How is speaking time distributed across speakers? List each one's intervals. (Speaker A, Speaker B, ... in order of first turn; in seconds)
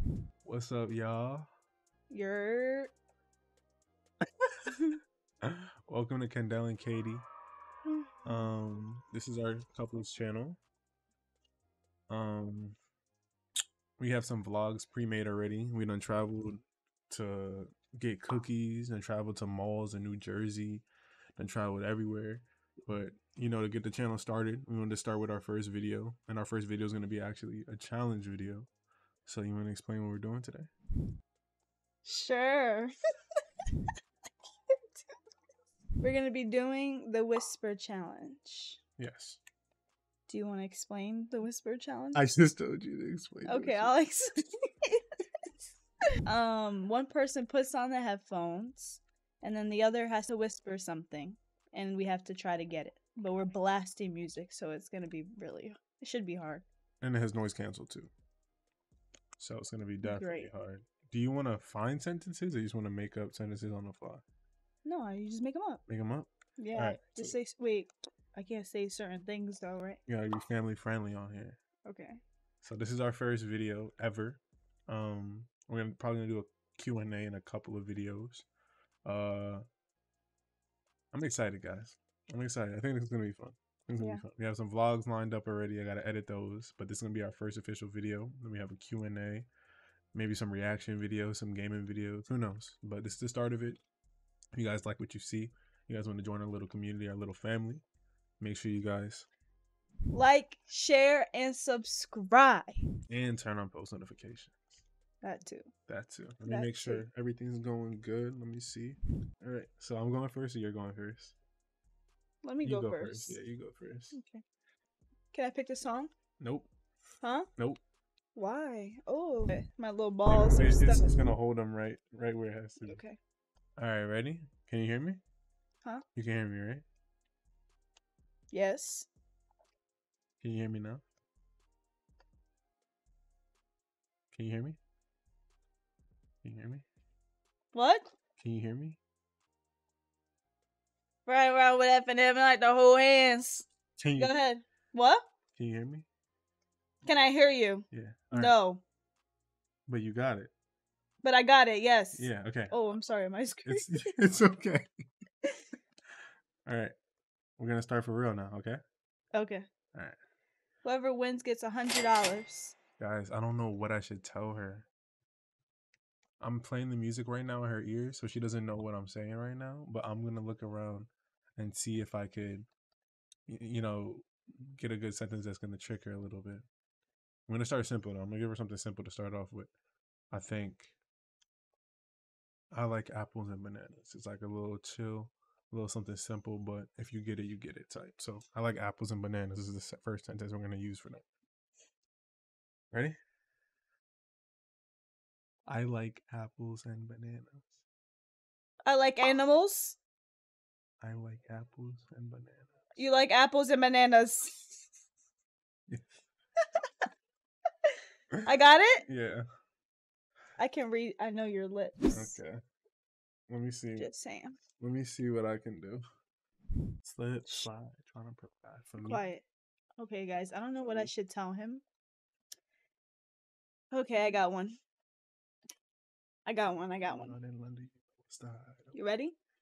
Speaker A: 0.4-1.4, 5.4-7.3, 8.2-10.6, 12.1-12.8, 14.0-20.8, 21.4-28.7, 29.2-30.7, 39.0-39.4, 42.1-43.9, 57.0-58.1, 59.4-64.2, 65.9-67.3, 70.1-71.6, 72.6-78.5, 79.0-79.6, 81.1-89.5, 90.1-93.8, 94.5-97.8, 98.4-99.3, 103.1-104.8, 105.9-111.3, 112.6-114.2, 116.4-116.7, 120.2-123.0, 123.8-125.2, 126.1-126.8, 130.4-131.0, 134.3-134.8, 136.4-136.8, 138.4-139.0, 144.0-144.4, 145.6-146.1, 147.9-148.5, 149.9-150.5, 152.1-152.7, 153.7-154.9, 156.7-156.9, 157.6-158.8, 163.0-164.9, 166.4-172.7, 173.5-176.6, 177.5-179.7, 180.3-180.9, 182.7-191.2, 192.9-193.2, 195.7-197.8, 201.0-202.8, 209.1-209.4, 212.1-212.6, 213.5-214.1, 214.8-216.0, 217.0-219.2, 227.0-228.9
Speaker B: 2.1-2.9, 7.8-8.4, 32.0-32.9, 36.0-38.8, 40.3-42.3, 43.4-45.1, 46.3-56.6, 60.0-60.5, 64.8-65.8, 66.6-70.0, 71.8-72.2, 84.0-84.2, 100.1-102.8, 105.2-105.7, 106.5-107.0, 112.4-113.4, 114.1-114.4, 115.3-116.1, 117.2-117.5, 118.3-121.2, 122.8-123.2, 128.5-129.1, 137.7-138.1, 141.2-145.2, 147.0-148.8, 151.2-154.2, 159.3-159.7, 160.8-162.8, 198.8-200.0, 202.9-204.7, 208.4-209.0, 210.6-212.4, 214.0-214.6, 219.0-219.4, 220.0-221.8, 223.9-224.8, 226.4-227.3, 228.9-229.3